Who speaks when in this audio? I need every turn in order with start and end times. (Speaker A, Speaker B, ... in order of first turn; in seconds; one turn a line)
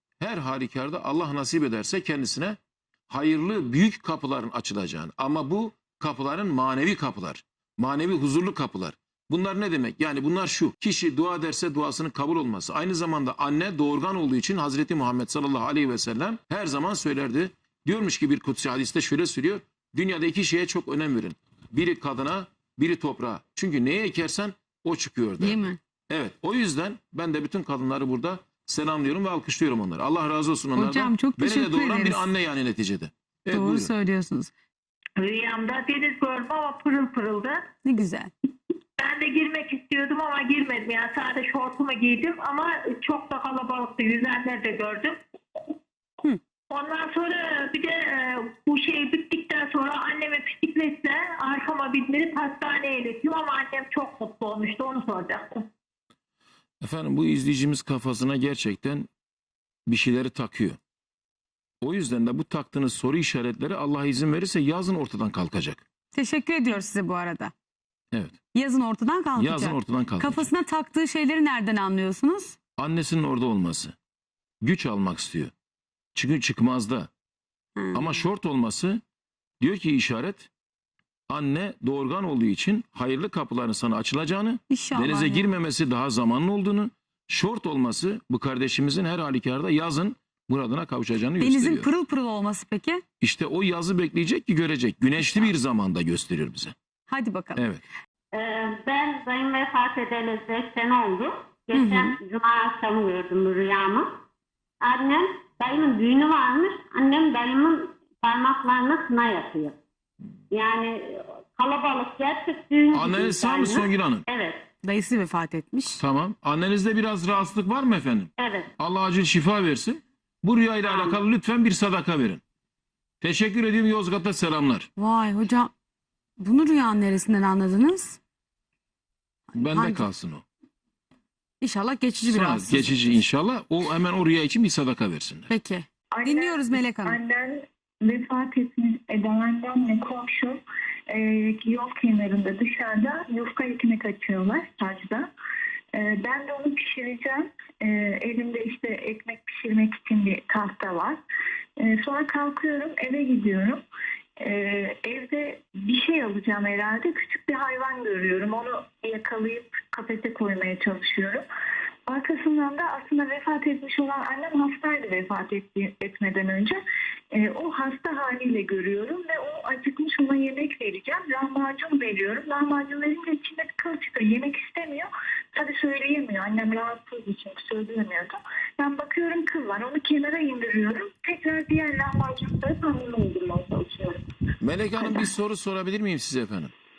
Speaker A: 0.2-2.6
Speaker A: 3.1-33.9
Speaker B: 25.4-25.8
Speaker B: 30.8-32.3
Speaker B: 33.5-34.5
Speaker C: 35.4-37.2
Speaker B: 37.9-38.3
Speaker C: 39.8-42.5
Speaker C: 43.0-45.1
Speaker C: 46.7-47.8
Speaker C: 48.6-55.5
Speaker A: 56.8-59.1
Speaker A: 59.9-60.8
Speaker A: 61.8-65.8
Speaker B: 66.1-67.5
Speaker B: 68.5-72.6
Speaker A: 69.4-70.5
Speaker A: 72.8-74.0
Speaker A: 74.6-75.5
Speaker A: 76.2-77.1
Speaker B: 77.8-78.2
Speaker A: 77.9-79.0
Speaker A: 79.6-80.5
Speaker A: 81.3-91.9
Speaker B: 84.7-85.5
Speaker B: 91.4-93.0
Speaker A: 93.2-96.8
Speaker B: 97.1-97.6
Speaker D: 98.3-104.1
Speaker B: 101.7-102.2
Speaker D: 104.8-109.8
Speaker D: 110.5-114.7
Speaker A: 113.0-114.2
Speaker B: 114.8-116.0
Speaker A: 116.0-122.4
Speaker D: 118.4-118.7
Speaker D: 120.9-121.2
Speaker A: 123.2-124.9
Speaker B: 125.0-125.7
Speaker B: 126.4-128.2
Speaker B: 129.6-130.1
Speaker A: 129.6-130.4
Speaker B: 131.6-133.0
Speaker A: 132.3-135.5
Speaker B: 135.5-137.2
Speaker E: 136.1-145.3
Speaker E: 145.9-151.2
Speaker E: 151.8-153.8
Speaker E: 154.4-161.4
Speaker E: 162.1-166.8
Speaker E: 167.3-184.2
Speaker A: 184.6-186.7
Speaker E: 185.0-185.3